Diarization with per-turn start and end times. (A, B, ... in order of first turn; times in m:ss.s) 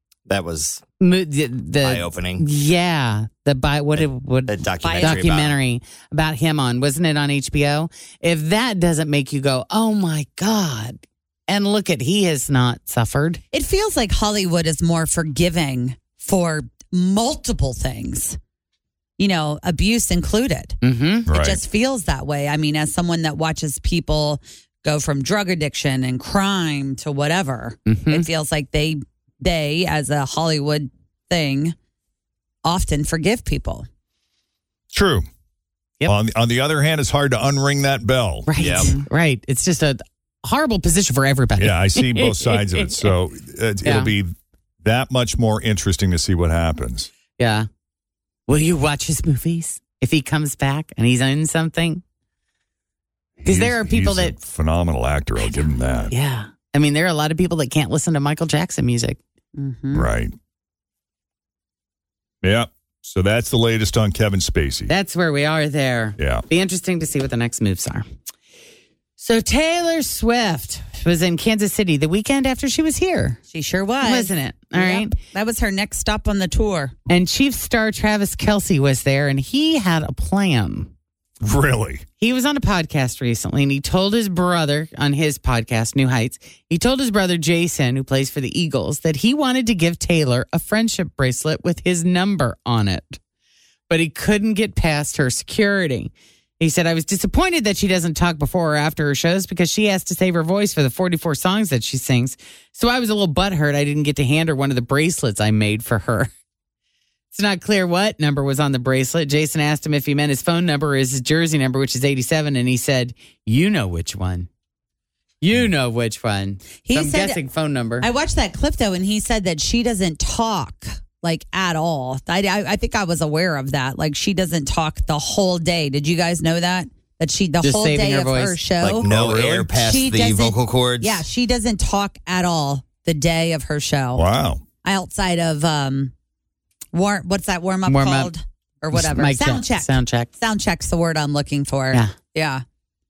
0:00.3-0:00.8 A
0:01.0-0:13.4 B
0:01.8-0:02.4 A
0:04.0-0:05.6 A
0:04.8-0:05.2 C
0:13.5-0:18.4 C
0:19.2-0:20.8 C
0:20.8-0:21.3 B
0:21.3-0:21.6 D
0:21.3-0:31.8 C
0:27.9-0:28.3 B
0:32.6-0:33.9 C
0:34.9-0:35.3 D
0:36.1-0:38.9 D
0:38.5-0:43.1 B
0:38.6-0:38.9 A
0:41.6-0:47.1 D
0:43.8-0:44.1 B
0:47.4-0:47.7 B
0:48.5-0:52.0 B
0:53.4-0:56.1 D
0:53.4-0:54.4 B
0:56.1-0:59.2 B
0:59.6-1:00.1 C
0:59.9-1:00.3 D
1:02.4-1:04.9 D
1:04.9-1:08.0 B
1:06.2-1:06.4 D
1:09.2-1:13.4 B
1:13.5-1:17.0 C
1:14.0-1:15.2 B
1:17.1-1:20.9 B
1:21.4-1:22.0 D
1:22.2-1:33.2 B
1:33.9-1:46.3 B
1:47.3-1:54.5 B
1:55.4-1:58.1 B
1:56.8-1:57.4 C
1:58.0-2:14.2 C
2:07.6-2:08.6 B
2:08.8-2:11.2 A
2:09.0-2:09.6 D
2:14.2-2:14.6 D
2:14.8-2:16.1 C
2:16.9-2:22.6 C
2:17.9-2:18.3 B
2:18.9-2:20.3 B